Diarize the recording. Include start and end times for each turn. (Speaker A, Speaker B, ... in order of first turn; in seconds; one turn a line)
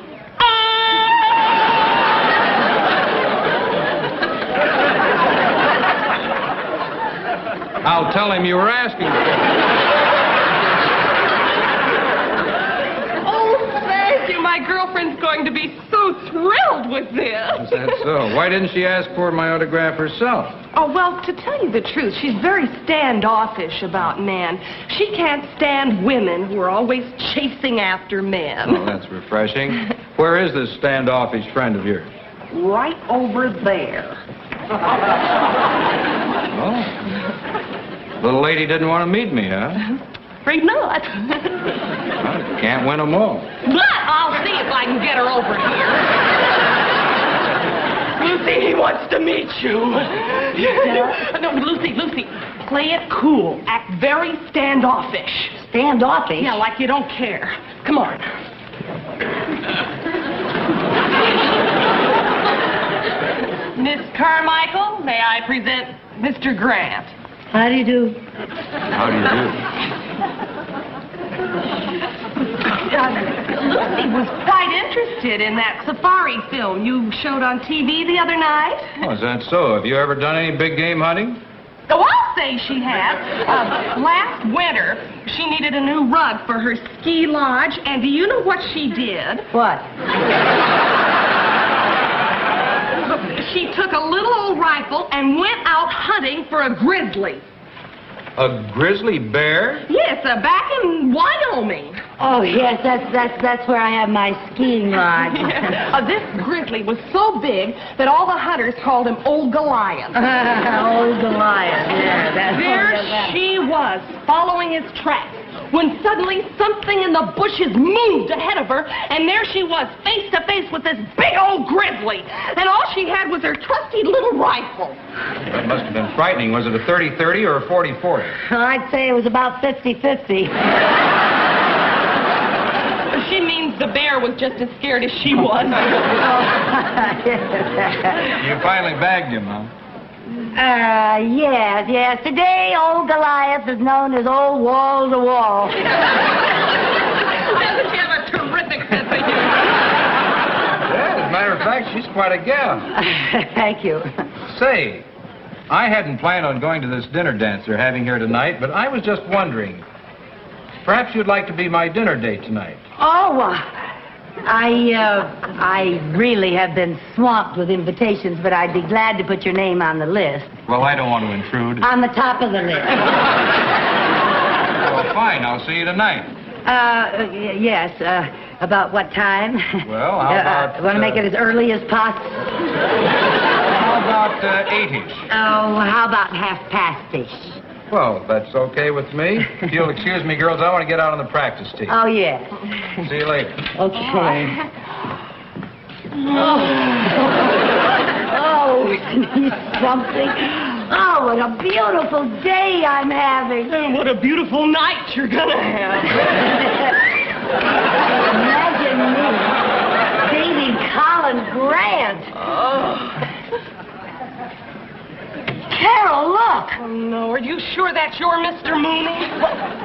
Speaker A: 7.8-9.4
Speaker B: 13.2-18.1
Speaker A: 17.6-20.6
Speaker B: 20.7-28.9
Speaker A: 28.6-32.1
Speaker B: 32.5-34.2
Speaker A: 36.5-37.1
Speaker A: 38.2-39.9
Speaker B: 40.5-41.6
Speaker A: 42.2-43.5
Speaker B: 43.6-46.1
Speaker B: 48.2-55.6
Speaker C: 50.6-51.2
Speaker C: 55.6-56.6
Speaker B: 56.4-58.2
Speaker B: 63.7-67.1
Speaker C: 67.5-68.2
Speaker A: 68.9-69.6
Speaker B: 72.7-79.0
Speaker A: 79.0-81.4
Speaker B: 81.9-89.5
Speaker C: 89.5-89.9
Speaker B: 93.0-97.4
Speaker A: 98.4-99.8
Speaker B: 99.9-102.0
Speaker C: 102.2-105.8
Speaker B: 105.3-110.2
Speaker C: 110.2-113.4
Speaker B: 112.5-125.0
Speaker A: 125.5-128.4
Speaker C: 128.4-130.5
Speaker B: 133.1-136.0
Speaker C: 136.1-138.3
Speaker A: 138.3-139.7
Speaker C: 140.5-145.8
Speaker B: 147.3-149.7
Speaker A: 150.8-152.9
Speaker C: 153.0-154.1
Speaker A: 154.4-155.1
Speaker A: 155.7-159.8
Speaker A: 160.8-162.8
Speaker C: 163.0-163.7
Speaker C: 164.5-170.5
Speaker A: 170.7-171.9
Speaker C: 171.8-173.1
Speaker A: 174.8-176.3
Speaker C: 176.7-182.4
Speaker A: 179.8-181.2
Speaker A: 183.7-185.3
Speaker C: 185.3-187.6
Speaker A: 187.9-192.0
Speaker C: 191.9-192.6
Speaker A: 193.0-193.7
Speaker C: 193.7-194.6
Speaker C: 196.3-197.5
Speaker B: 196.4-196.7
Speaker C: 198.1-203.7
Speaker B: 203.7-206.4
Speaker C: 206.2-207.0
Speaker C: 208.2-209.6
Speaker C: 210.2-212.3
Speaker B: 212.4-213.2
Speaker C: 215.7-216.8
Speaker B: 216.8-219.5